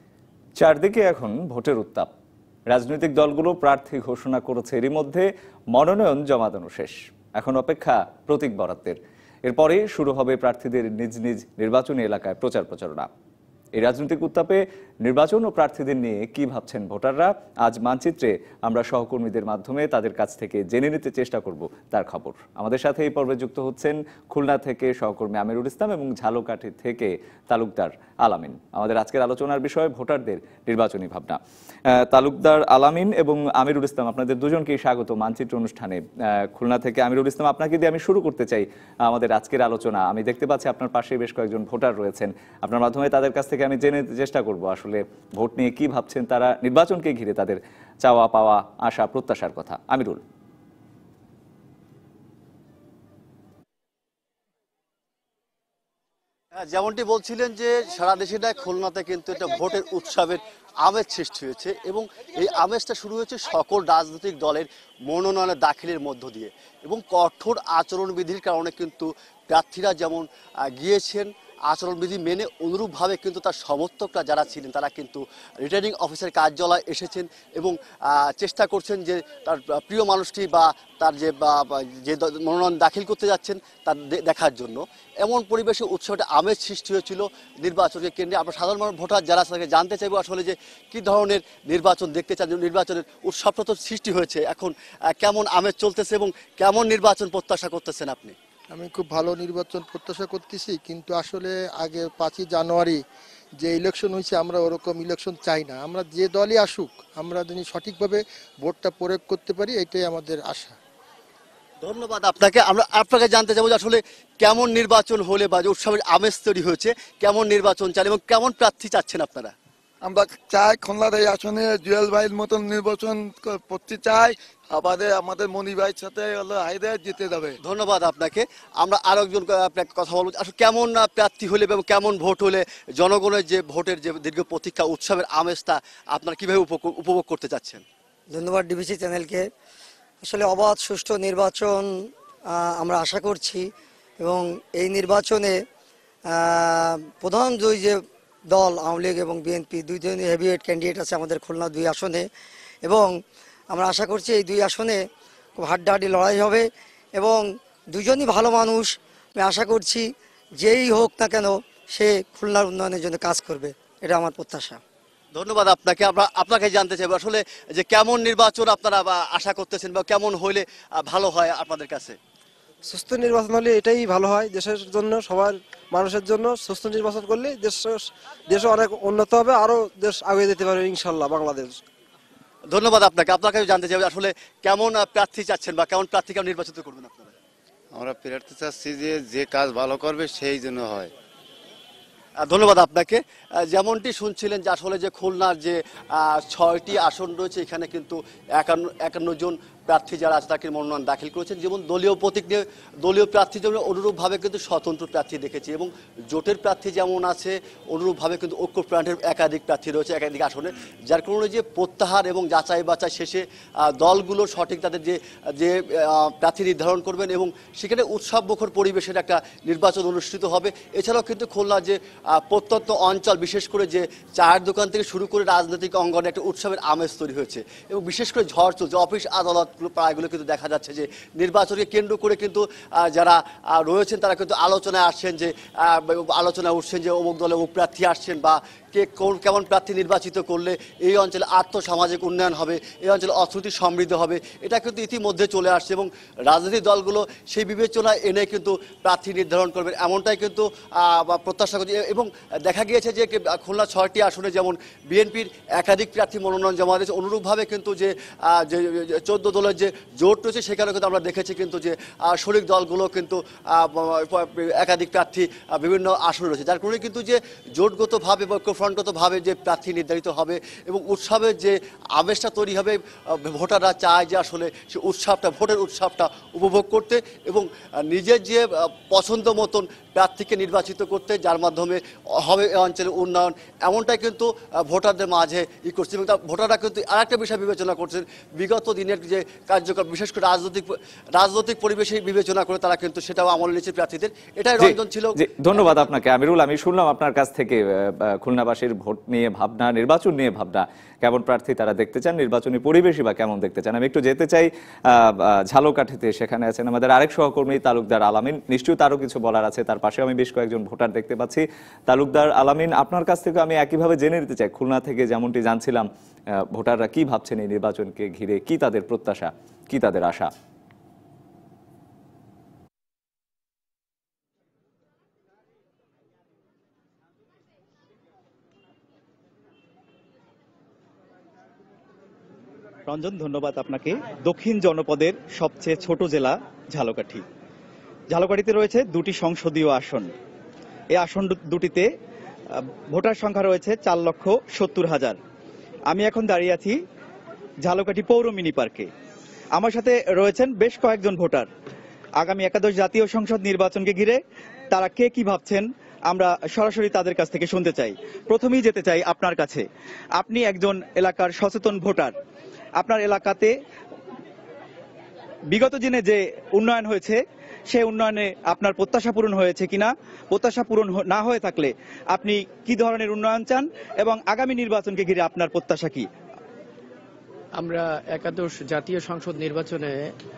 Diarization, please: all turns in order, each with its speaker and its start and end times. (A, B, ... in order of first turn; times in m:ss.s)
0:00.6-0:02.1 A
0:02.7-0:13.1 A
0:13.7-0:31.4 A
0:31.9-0:36.0 A
0:36.5-0:50.2 A
0:56.6-1:38.3 B
1:38.7-1:43.0 C
1:43.6-1:50.8 C
1:51.8-1:59.5 B
2:00.0-2:07.5 D
2:07.6-2:17.8 B
2:18.3-2:19.4 E
2:20.2-2:21.8 E
2:22.5-2:23.6 E
2:24.2-2:25.6 E
2:26.3-2:28.0 E
2:28.5-2:32.2 E
2:32.8-2:33.1 E
2:33.7-2:35.0 E
2:35.6-2:40.0 E
2:40.6-2:44.8 E
2:45.3-2:52.2 B
2:52.9-3:01.8 F
3:02.7-3:07.3 B
3:07.9-3:11.1 G
3:12.4-4:56.1 B
4:54.8-5:16.1 A
5:16.7-5:20.5 A
5:33.1-5:37.4 H
5:38.3-5:40.3 H
5:41.1-5:42.1 H
5:43.1-5:45.4 H
5:46.1-5:47.0 H
5:47.8-5:49.1 H
5:49.8-5:51.7 H
5:52.4-5:54.4 H
5:54.9-5:59.8 H
6:00.4-6:02.3 H
6:03.0-6:03.7 H
6:05.7-6:07.4 H
6:07.9-6:16.3 H
6:17.8-6:20.3 I